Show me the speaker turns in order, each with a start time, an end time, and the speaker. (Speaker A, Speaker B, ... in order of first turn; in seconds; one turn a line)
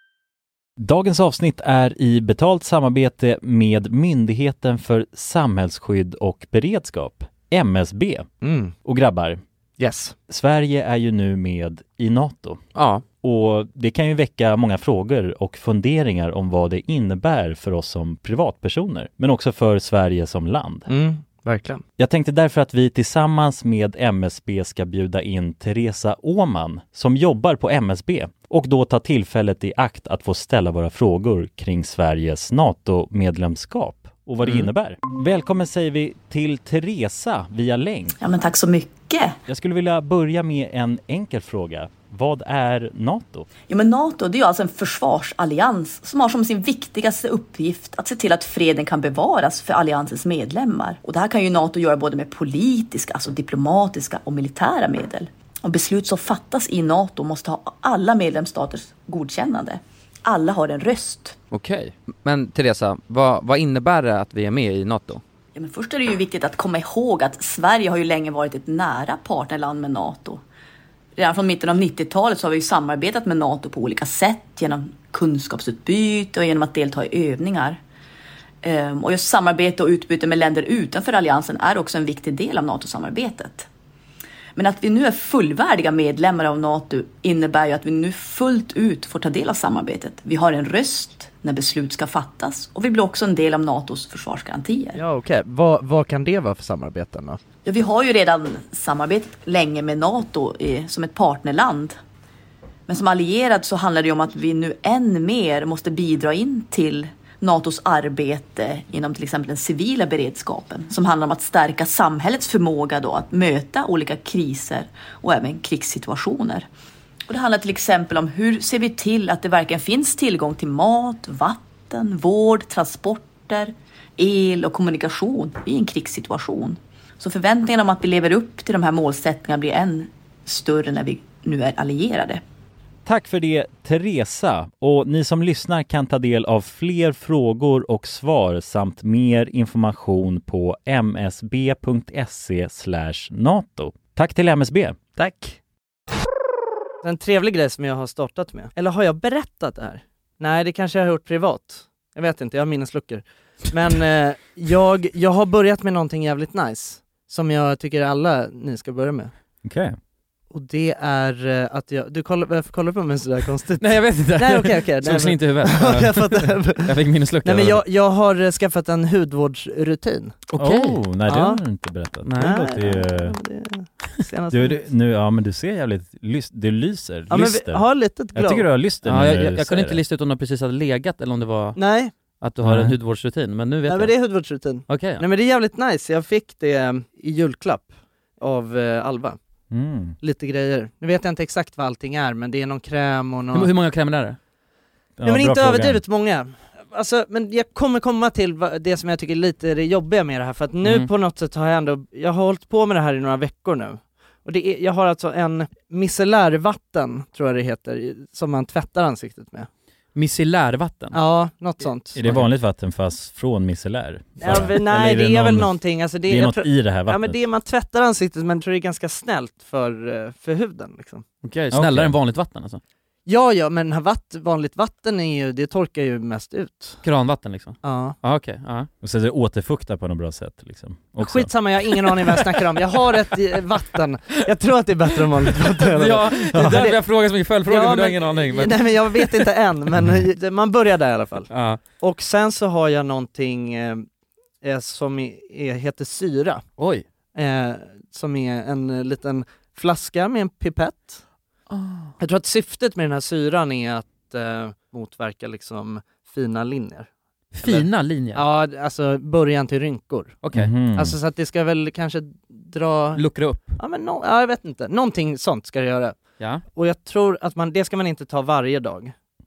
Speaker A: 0.8-8.3
Speaker B: 8.4-8.7
Speaker A: 8.8-9.4
Speaker B: 9.8-10.1
Speaker A: 10.3-12.6
Speaker C: 12.7-13.0
Speaker A: 13.2-20.9
Speaker B: 20.9-21.8
Speaker A: 22.0-38.1
Speaker D: 38.2-39.4
Speaker A: 39.5-43.5
Speaker D: 43.7-61.4
Speaker C: 61.5-65.2
Speaker D: 65.5-70.4
Speaker D: 71.2-77.8
Speaker D: 78.6-83.7
Speaker D: 84.5-95.0
Speaker B: 94.9-97.4
Speaker D: 97.6-102.0
Speaker D: 102.9-116.7
Speaker D: 117.3-132.4
Speaker A: 133.1-145.0
Speaker B: 145.2-145.6
Speaker B: 147.0-159.3
Speaker A: 159.6-159.9
Speaker B: 160.5-170.4
Speaker E: 163.8-167.8
Speaker E: 170.5-171.0
Speaker A: 170.6-173.4
Speaker B: 171.3-171.6
Speaker E: 172.2-172.5
Speaker B: 172.4-174.8
Speaker A: 174.5-180.0
Speaker B: 177.3-178.7
Speaker E: 179.0-184.1
Speaker B: 181.8-182.1
Speaker A: 182.6-182.9
Speaker B: 183.9-189.4
Speaker E: 184.9-185.2
Speaker A: 189.7-190.2
Speaker B: 190.2-193.7
Speaker E: 193.5-194.4
Speaker A: 195.2-196.0
Speaker B: 195.2-209.7
Speaker E: 200.8-201.1
Speaker E: 210.1-211.2
Speaker B: 211.1-212.2
Speaker A: 212.1-217.4
Speaker B: 214.4-221.2
Speaker E: 221.4-222.8
Speaker A: 221.7-222.1
Speaker B: 223.2-227.0
Speaker E: 227.0-228.9
Speaker B: 227.8-228.2
Speaker A: 229.0-231.5
Speaker B: 231.2-237.0
Speaker E: 235.8-239.5
Speaker A: 236.5-236.8
Speaker B: 237.7-244.1
Speaker E: 241.5-241.8
Speaker B: 244.6-246.6
Speaker E: 246.8-247.0
Speaker B: 247.3-251.2
Speaker E: 251.7-252.1
Speaker B: 252.2-257.1
Speaker E: 257.5-258.4
Speaker B: 257.6-260.4
Speaker E: 260.4-260.7
Speaker A: 260.5-261.2
Speaker B: 260.9-263.2
Speaker E: 263.1-263.8
Speaker B: 263.8-269.1